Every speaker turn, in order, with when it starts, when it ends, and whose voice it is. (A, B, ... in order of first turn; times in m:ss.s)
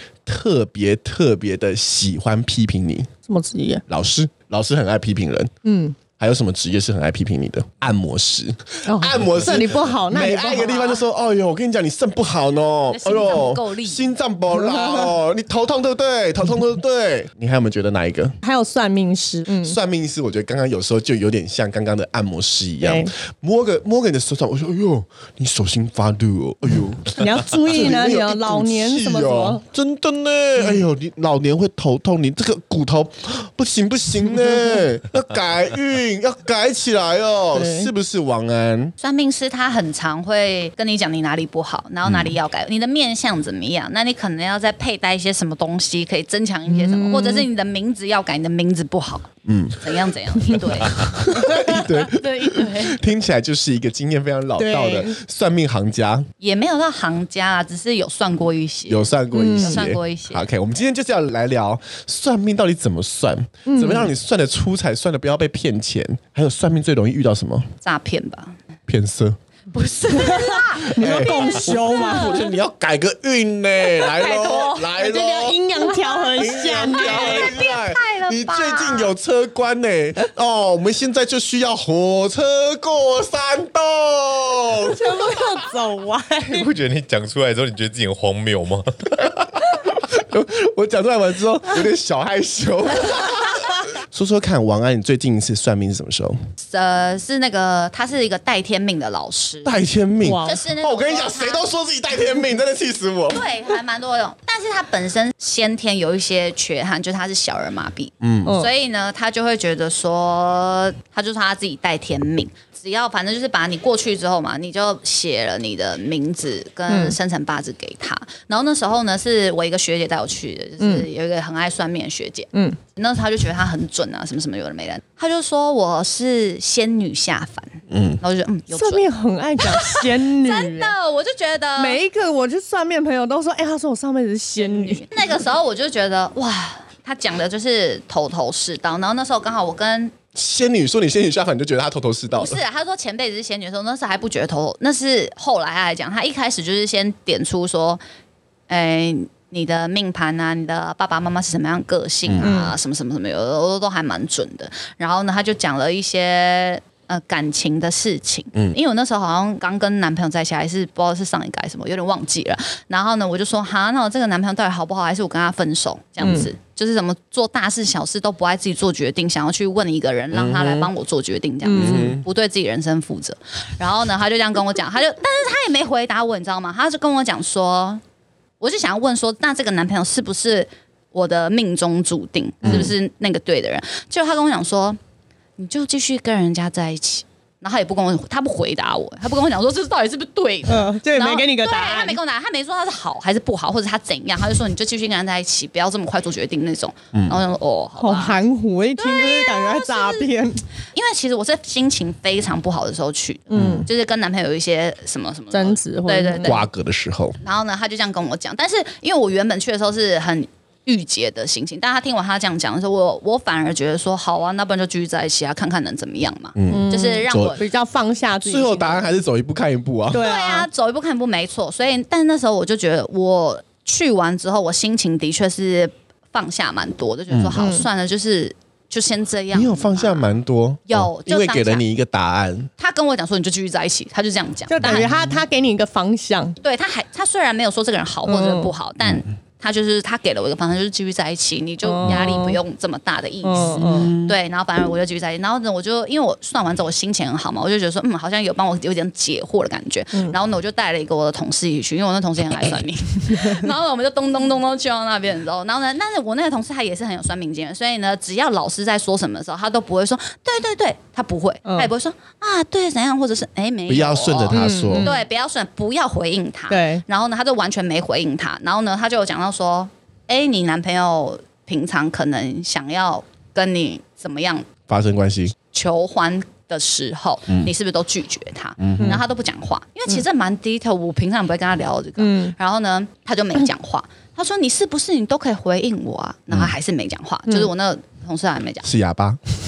0:00.2-0:03.1 A
0:03.3-0:03.8 B
0:03.9-0:05.5 A
0:05.6-0:06.0 B
0:06.2-0:18.4 A
0:08.8-0:10.9 B
0:12.9-0:14.1 C
0:14.7-0:15.0 B
0:18.4-0:19.8 B
0:19.5-0:38.9 A
0:22.8-0:23.1 B
0:27.2-0:29.6 B
0:37.5-0:37.9 B
0:39.0-0:53.0 C
0:42.0-0:42.3 A
0:46.7-0:47.5 B
0:49.4-0:49.8 A
0:50.9-0:56.3 A
0:54.6-0:55.2 B
0:56.4-1:00.4 C
0:58.9-1:07.7 A
0:59.3-0:59.9 B
1:03.6-1:04.1 B
1:07.8-1:08.6 C
1:08.9-1:09.4 A
1:09.7-1:12.5 C
1:10.1-1:12.4 B
1:10.8-1:25.3 A
1:13.9-1:14.9 C
1:15.0-1:17.6 B
1:15.8-1:19.1 C
1:24.8-1:26.7 B
1:26.4-1:29.3 D
1:29.9-1:36.4 A
1:36.6-1:39.8 C
1:39.6-1:43.4 A
1:40.2-1:40.6 B
1:40.4-1:41.7 C
1:43.3-2:09.0 C
1:48.2-1:48.6 A
1:56.9-1:57.2 B
2:00.8-2:01.1 B
2:02.5-2:02.8 B
2:07.9-2:08.2 A
2:08.7-2:10.9 B
2:09.6-2:12.0 C
2:11.8-2:15.0 B
2:14.6-2:20.1 C
2:20.3-2:22.6 A
2:22.4-2:28.0 C
2:28.7-2:58.0 C
2:32.2-2:32.5 A
2:32.4-2:32.7 B
2:46.2-2:46.5 B
2:50.3-2:50.9 A
2:51.6-2:52.2 B
2:51.7-2:52.2 A
2:58.6-3:05.0 C
3:02.6-3:02.9 A
3:05.6-3:18.4 C
3:10.7-3:12.2 B
3:17.1-3:17.4 A
3:18.0-3:20.6 B
3:19.0-3:20.3 C
3:20.9-3:26.7 C
3:23.5-3:23.9 A
3:23.5-3:23.9 B
3:25.5-3:26.6 B
3:26.4-3:27.4 A
3:27.4-3:37.6 C
3:36.5-3:37.6 A
3:36.7-3:39.1 B
3:38.4-3:40.3 A
3:40.1-3:40.7 B
3:40.1-3:50.3 C
3:47.3-3:47.6 A
3:47.6-3:47.9 B
3:49.5-3:52.7 A
3:50.9-3:51.8 C
3:52.8-3:55.1 C
3:54.7-3:56.6 B
3:54.8-3:55.4 A
3:56.6-4:34.7 C
3:58.2-3:58.7 B
4:01.8-4:02.6 B
4:03.4-4:04.1 B
4:03.8-4:04.3 A
4:21.6-4:21.9 B
4:23.9-4:25.1 A
4:24.5-4:25.2 B
4:26.7-4:27.0 B
4:34.9-4:35.5 A
4:35.7-4:48.9 C
4:38.8-4:39.2 A
4:42.2-4:42.5 B
4:48.8-4:49.4 A